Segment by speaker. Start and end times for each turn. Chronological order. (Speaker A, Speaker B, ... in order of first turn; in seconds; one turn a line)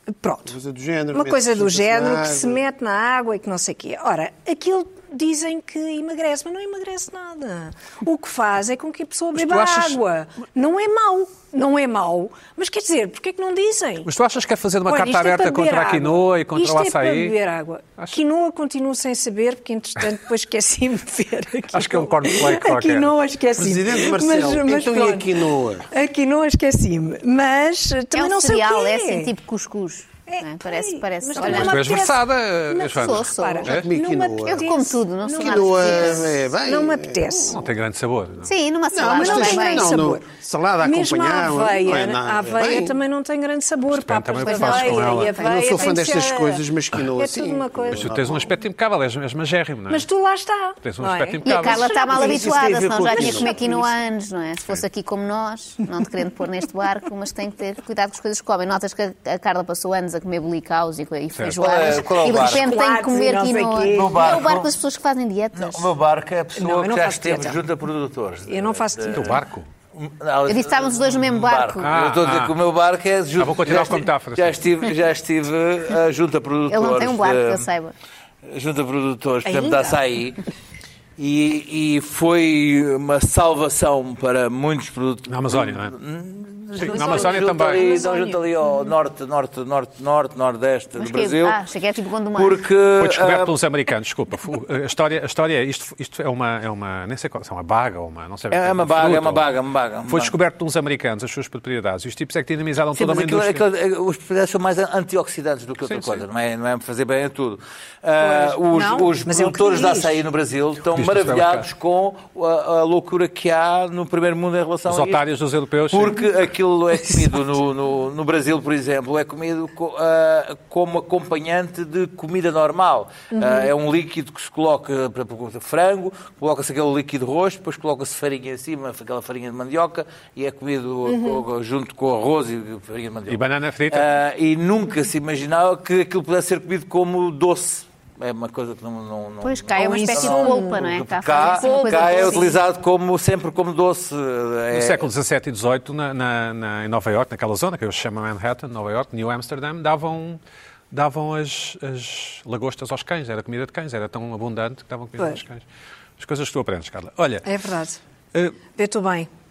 Speaker A: 0.1-0.5
Speaker B: 0.5-2.6
Speaker A: 1.1-14.1
Speaker C: 9.3-10.0
Speaker C: 14.0-17.4
Speaker A: 14.8-29.3
Speaker C: 21.7-23.1
Speaker B: 23.6-25.9
Speaker D: 28.1-31.9
Speaker A: 30.3-37.6
Speaker C: 31.4-33.9
Speaker D: 32.9-33.7
Speaker B: 33.7-34.7
Speaker D: 34.5-36.4
Speaker B: 35.3-37.5
Speaker C: 37.5-38.5
Speaker D: 38.4-40.0
Speaker B: 38.9-43.0
Speaker A: 39.0-40.2
Speaker A: 40.8-48.1
Speaker C: 43.9-45.3
Speaker D: 44.5-45.2
Speaker B: 45.3-48.5
Speaker C: 47.9-50.1
Speaker A: 49.9-53.8
Speaker C: 50.8-51.8
Speaker D: 51.4-65.9
Speaker B: 52.0-53.9
Speaker C: 61.3-61.6
Speaker E: 61.6-62.7
Speaker A: 62.4-64.4
Speaker E: 63.9-64.7
Speaker E: 65.5-69.4
Speaker A: 66.5-67.6
Speaker A: 68.5-69.4
Speaker C: 69.1-69.7
Speaker E: 69.9-77.7
Speaker D: 70.5-71.9
Speaker C: 71.8-72.5
Speaker C: 73.4-74.6
Speaker D: 76.7-77.9
Speaker E: 78.5-80.4
Speaker A: 79.4-80.0
Speaker E: 81.2-91.6
Speaker C: 85.3-86.0
Speaker C: 86.8-87.9
Speaker A: 86.8-88.9
Speaker D: 91.0-92.6
Speaker E: 92.3-93.5
Speaker C: 93.0-99.5
Speaker E: 98.5-100.3
Speaker C: 100.1-103.6
Speaker E: 102.9-115.2
Speaker C: 105.8-106.2
Speaker A: 108.2-110.2
Speaker C: 110.9-111.7
Speaker C: 114.9-116.2
Speaker E: 115.9-145.1
Speaker A: 123.3-123.7
Speaker A: 131.0-131.4
Speaker C: 133.3-134.1
Speaker D: 139.4-142.6
Speaker A: 139.7-142.6
Speaker C: 144.7-150.4
Speaker C: 150.9-155.6
Speaker C: 156.2-157.5
Speaker A: 157.4-158.0
Speaker A: 158.7-159.3